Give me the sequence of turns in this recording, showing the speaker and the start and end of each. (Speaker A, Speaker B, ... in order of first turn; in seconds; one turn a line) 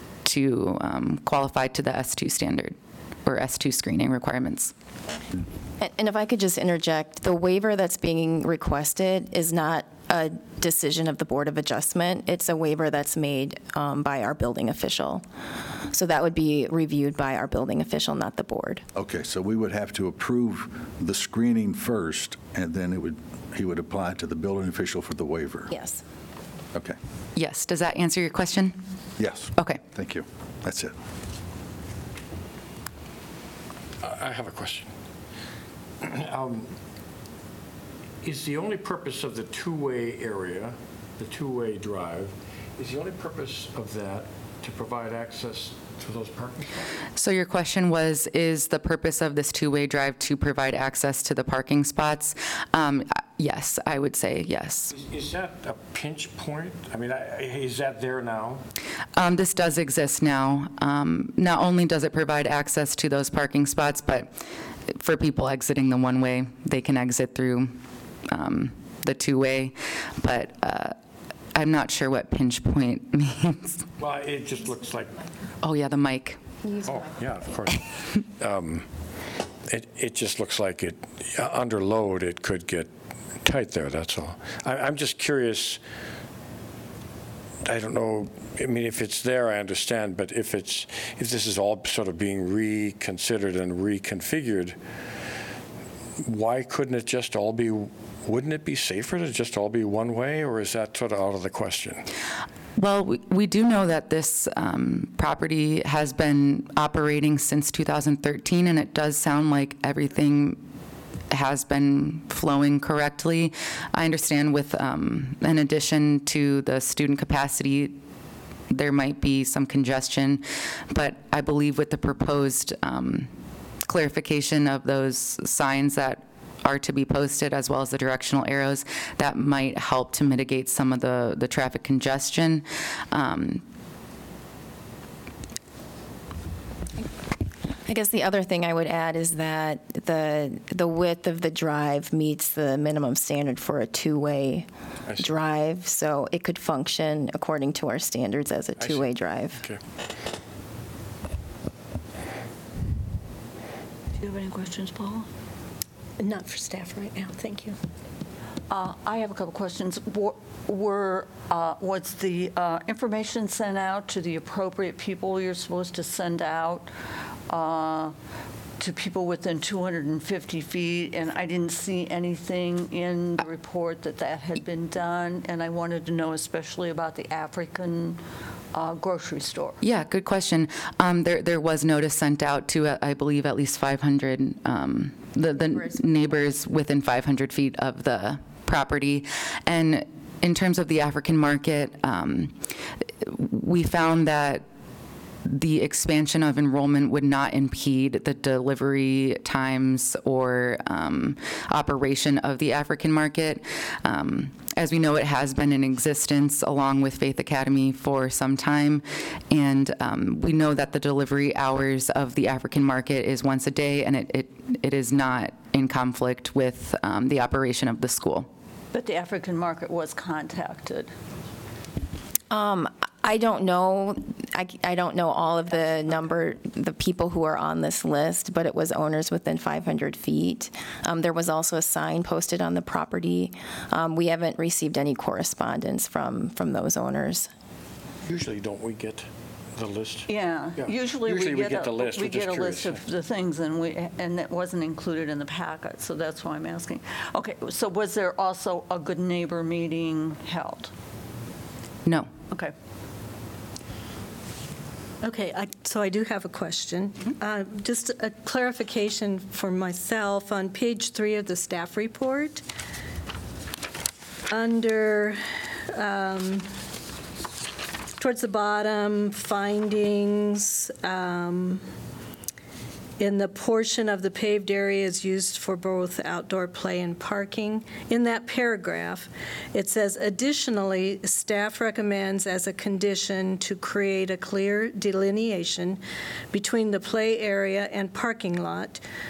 Speaker A: 0.2-4.7
Speaker B: 5.8-15.2
Speaker B: 15.9-18.8
Speaker C: 18.9-25.7
Speaker B: 25.7-26.0
Speaker A: 27.4-28.8
Speaker C: 29.2-30.9
Speaker A: 29.6-29.8
Speaker D: 34.0-34.9
Speaker D: 36.0-36.7
Speaker D: 38.2-46.9
Speaker A: 47.2-54.9
Speaker D: 54.9-58.6
Speaker A: 59.1-64.3
Speaker A: 64.9-67.8
Speaker A: 68.3-70.9
Speaker A: 71.5-73.9
Speaker D: 74.0-75.2
Speaker A: 75.6-76.4
Speaker D: 76.8-78.9
Speaker D: 79.7-82.9
Speaker D: 83.4-85.8
Speaker D: 87.6-94.8
Speaker D: 96.2-102.0
Speaker A: 102.8-110.6
Speaker A: 111.3-118.0
Speaker A: 118.7-123.3
Speaker A: 123.8-133.6
Speaker B: 137.8-149.6
Speaker D: 148.8-149.0
Speaker E: 154.2-155.3
Speaker F: 156.2-157.8
Speaker E: 158.7-166.9
Speaker E: 167.5-168.1
Speaker E: 168.8-178.2
Speaker E: 178.7-179.8
Speaker A: 179.8-192.6
Speaker A: 193.2-194.6
Speaker A: 195.4-218.5
Speaker E: 218.9-221.1
Speaker B: 222.5-237.5
Speaker D: 238.2-243.0
Speaker E: 240.3-250.9
Speaker F: 255.2-262.6
Speaker F: 264.5-265.4
Speaker F: 265.9-266.7
Speaker F: 268.2-271.8
Speaker F: 273.2-286.0
Speaker F: 286.5-289.0